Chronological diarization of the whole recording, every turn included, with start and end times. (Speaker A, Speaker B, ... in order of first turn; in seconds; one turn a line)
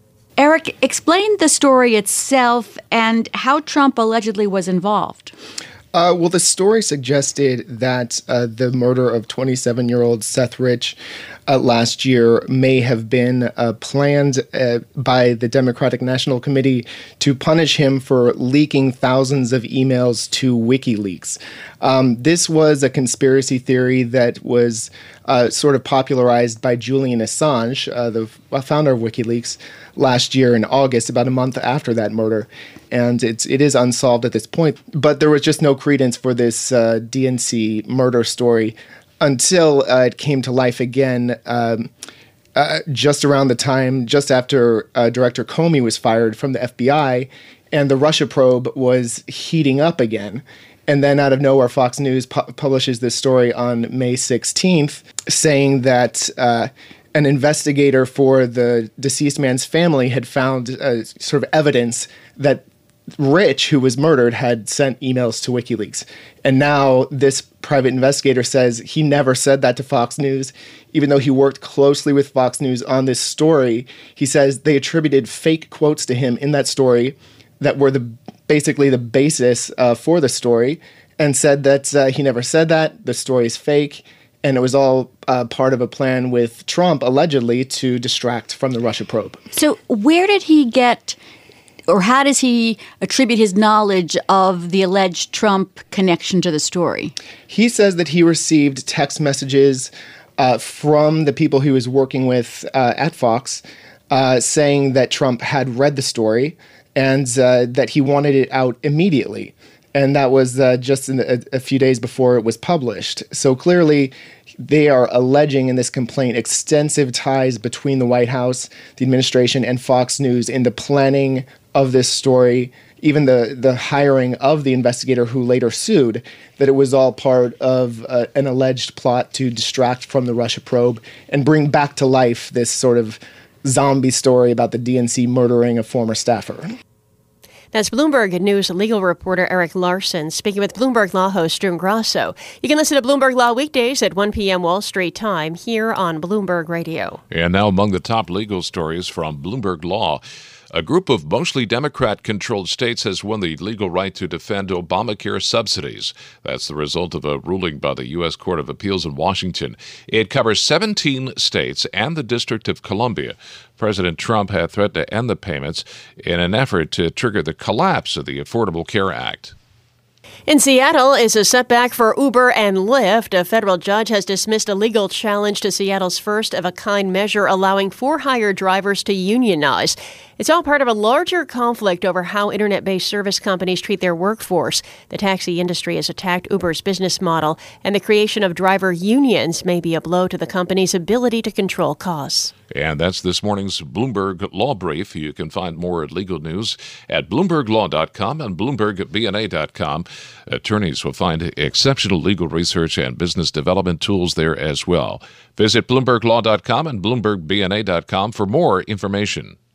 Speaker A: 0.4-5.3
Speaker B: 5.9-41.9
Speaker B: 42.5-62.6
Speaker B: 63.2-89.4
Speaker A: 89.5-91.2
Speaker A: 91.9-97.1
Speaker B: 97.5-136.7
Speaker C: 137.7-147.2
Speaker D: 147.3-150.2
Speaker D: 150.7-169.5
Speaker C: 170.5-192.5
Speaker D: 192.7-209.6